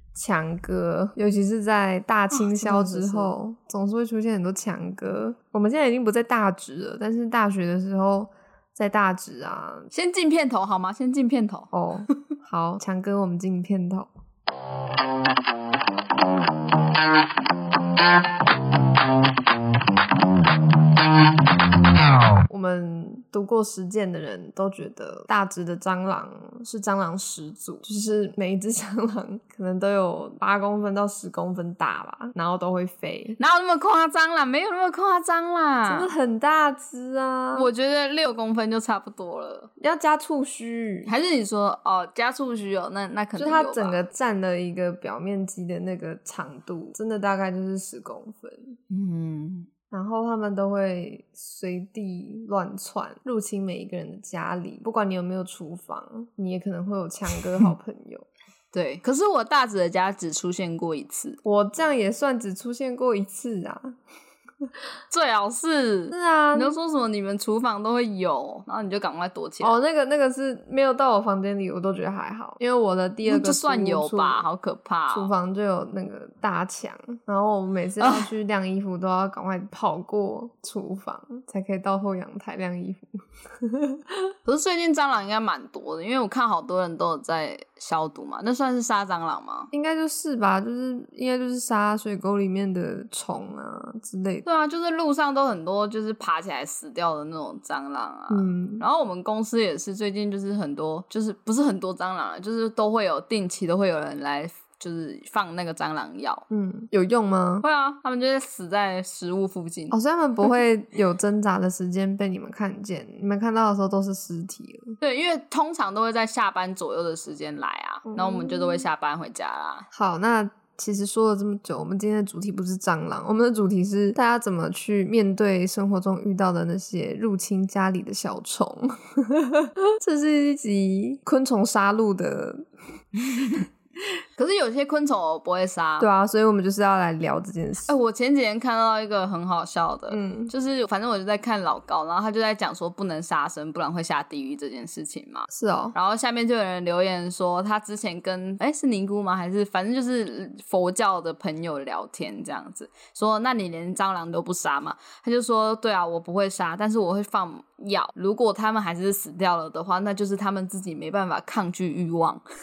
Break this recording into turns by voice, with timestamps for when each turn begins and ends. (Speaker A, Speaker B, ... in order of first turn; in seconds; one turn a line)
Speaker A: 0.1-9.9
Speaker B: 2.3-3.3
Speaker B: 9.9-12.2
Speaker A: 11.7-14.1
Speaker A: 22.5-33.4
Speaker B: 33.4-36.1
Speaker A: 35.9-37.7
Speaker B: 37.5-39.7
Speaker A: 39.8-41.1
Speaker B: 41.0-44.0
Speaker A: 43.4-48.8
Speaker B: 48.9-49.7
Speaker A: 49.9-58.3
Speaker B: 58.7-61.4
Speaker A: 61.4-63.9
Speaker B: 65.1-69.7
Speaker A: 66.1-66.8
Speaker A: 69.6-74.4
Speaker B: 73.2-75.3
Speaker A: 75.1-84.3
Speaker B: 78.0-78.3
Speaker B: 84.4-89.7
Speaker A: 89.7-94.5
Speaker B: 94.4-106.4
Speaker A: 98.3-98.8
Speaker A: 106.5-107.6
Speaker B: 107.6-110.0
Speaker A: 109.9-115.0
Speaker B: 115.0-119.9
Speaker A: 118.1-118.9
Speaker A: 119.9-132.7
Speaker B: 133.2-133.7
Speaker B: 134.3-136.1
Speaker A: 136.0-137.9
Speaker B: 137.8-162.4
Speaker A: 140.1-140.5
Speaker A: 145.5-145.9